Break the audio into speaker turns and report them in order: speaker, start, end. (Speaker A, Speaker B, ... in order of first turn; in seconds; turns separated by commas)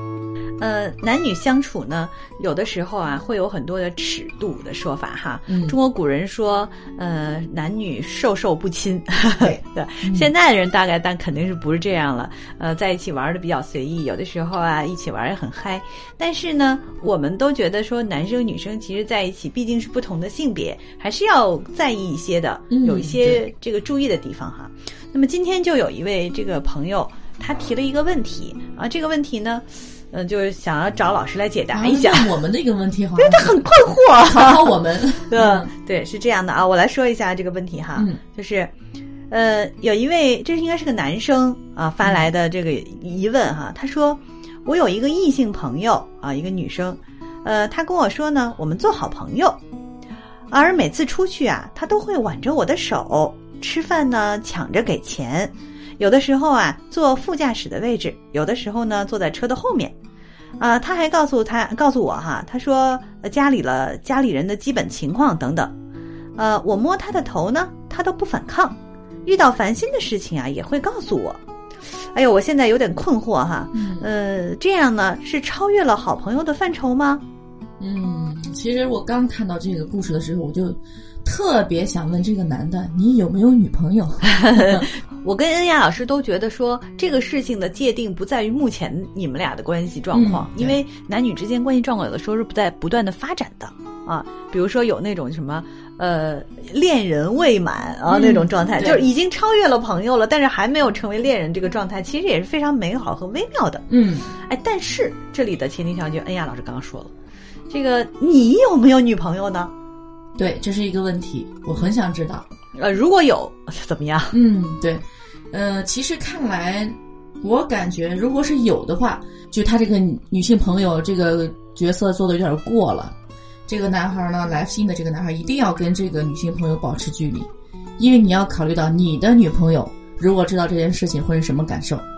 Speaker A: 0.6-32.4, Speaker B: 5.5-5.8, Speaker B: 9.4-10.3, Speaker B: 22.7-23.4, Speaker B: 31.7-33.6, Speaker A: 33.2-38.7, Speaker B: 34.2-35.7, Speaker A: 39.3-49.6, Speaker A: 50.5-60.0, Speaker A: 60.6-65.7, Speaker A: 66.4-71.4, Speaker A: 72.0-77.2, Speaker B: 73.7-74.1, Speaker B: 77.8-84.9, Speaker A: 84.3-103.8, Speaker B: 90.1-90.8, Speaker B: 98.1-99.1, Speaker B: 103.9-104.3, Speaker A: 104.5-107.1, Speaker A: 107.7-109.7, Speaker B: 110.4-112.5, Speaker A: 112.8-114.4, Speaker B: 114.3-123.2, Speaker B: 123.7-132.0